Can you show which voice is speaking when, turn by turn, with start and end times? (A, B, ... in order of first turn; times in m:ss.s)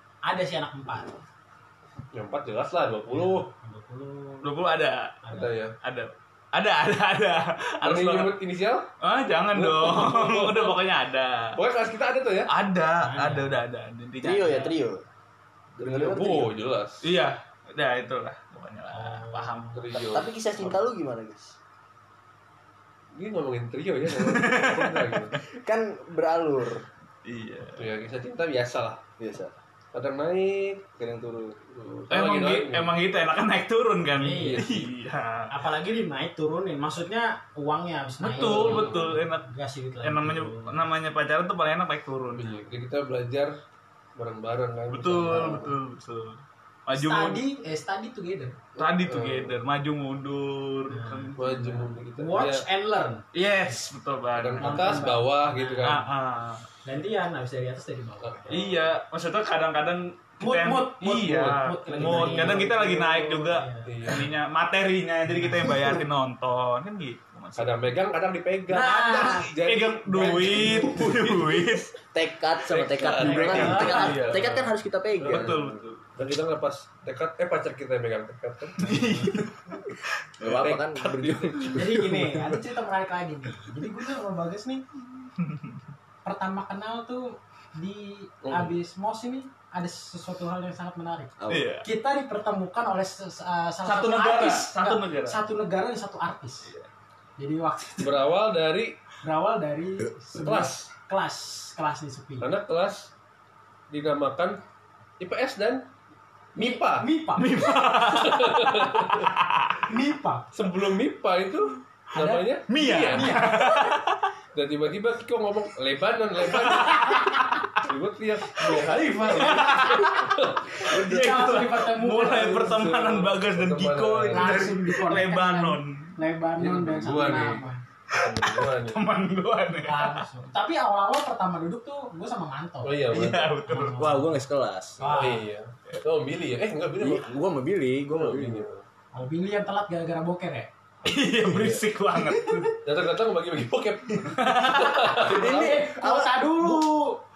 0:00.2-0:01.1 A
0:02.1-0:03.5 B
0:03.1-0:04.5 A
0:04.4-0:08.4 C
0:05.2-0:05.5 A
0:05.3-0:05.8 B
0:07.8-0:08.9 B
0:09.0-0:11.6 C
0:09.5-0:10.8 B
0:11.6-0:12.5 B
0:12.5-0:14.7 C
0:13.0-0:13.6 A
0:14.2-0:15.0 D
0:15.8-0:16.5 D
0:15.8-0:17.0 B
0:17.0-0:19.8 C
0:18.9-0:19.8 A
0:19.7-0:20.8 B
0:20.1-0:21.5 D
0:23.1-0:25.4 B
0:24.1-0:25.2 C
0:25.5-0:26.8 D
0:27.2-0:27.9 C
0:27.8-0:29.0 B
0:29.2-0:29.5 D
0:29.9-0:30.8 B
0:31.0-0:31.6 D
0:31.7-0:32.9 B
0:32.1-0:35.5 C
0:34.2-0:34.7 A
0:34.4-0:34.9 B
0:35.5-0:40.8 A
0:38.2-0:39.5 C
0:38.3-0:39.1 B
0:40.0-0:42.6 C
0:42.3-0:43.5 B
0:44.2-0:45.7 B
0:44.9-0:47.4 C
0:46.9-0:48.6 A
0:48.8-0:49.6 B
0:48.8-0:51.7 C
0:50.9-0:53.2 A
0:51.4-0:52.6 B
0:53.3-0:55.1 C
0:54.3-0:56.1 B
0:54.6-0:56.0 A
0:55.8-0:56.6 C
0:56.8-0:58.6 A
0:58.2-0:58.9 B
0:58.5-1:08.0 C
1:00.4-1:03.9 A
1:01.9-1:02.9 B
1:03.8-1:04.3 B
1:07.6-1:11.7 B
1:08.7-1:09.5 A
1:08.7-1:11.9 C
1:12.1-1:15.7 D
1:12.7-1:14.6 B
1:13.2-1:14.3 A
1:13.2-1:14.6 C
1:15.2-1:19.5 B
1:15.2-1:16.1 C
1:18.8-1:19.6 C
1:20.4-1:22.5 D
1:20.4-1:21.8 B
1:21.7-1:24.8 A
1:25.4-1:25.7 C
1:26.2-1:36.7 A
1:28.4-1:28.7 B
1:31.4-1:31.7 D
1:31.5-1:31.8 C
1:33.8-1:35.4 C
1:37.4-1:38.3 A
1:38.0-1:39.0 B
1:39.2-1:42.5 A
1:40.4-1:40.9 B
1:42.4-1:43.1 B
1:43.9-1:44.6 B
1:45.2-1:45.9 B
1:46.5-1:47.1 B
1:46.5-1:47.7 A
1:47.4-1:49.7 C
1:48.0-1:49.3 B
1:49.9-1:50.5 A
1:50.5-1:53.4 B
1:52.1-1:52.5 A
1:52.7-1:54.3 C
1:53.0-1:53.9 A
1:54.5-1:57.3 B
1:56.6-1:57.6 C
1:57.8-2:01.1 B
1:58.6-2:06.2 C
2:00.8-2:02.7 A
2:02.2-2:04.7 B
2:04.3-2:07.8 A
2:06.6-2:09.0 B
2:08.2-2:10.2 C
2:09.8-2:13.0 A
2:12.8-2:13.5 B
2:13.1-2:14.0 C
2:13.7-2:14.3 A
2:13.9-2:15.0 D
2:15.0-2:15.4 A
2:15.0-2:17.3 B
2:17.0-2:18.7 D
2:18.1-2:18.8 B
2:19.1-2:20.7 A
2:21.0-2:22.8 C
2:21.4-2:21.8 B
2:22.8-2:25.8 B
2:24.4-2:25.2 C
2:25.2-2:26.8 D
2:25.2-2:27.2 A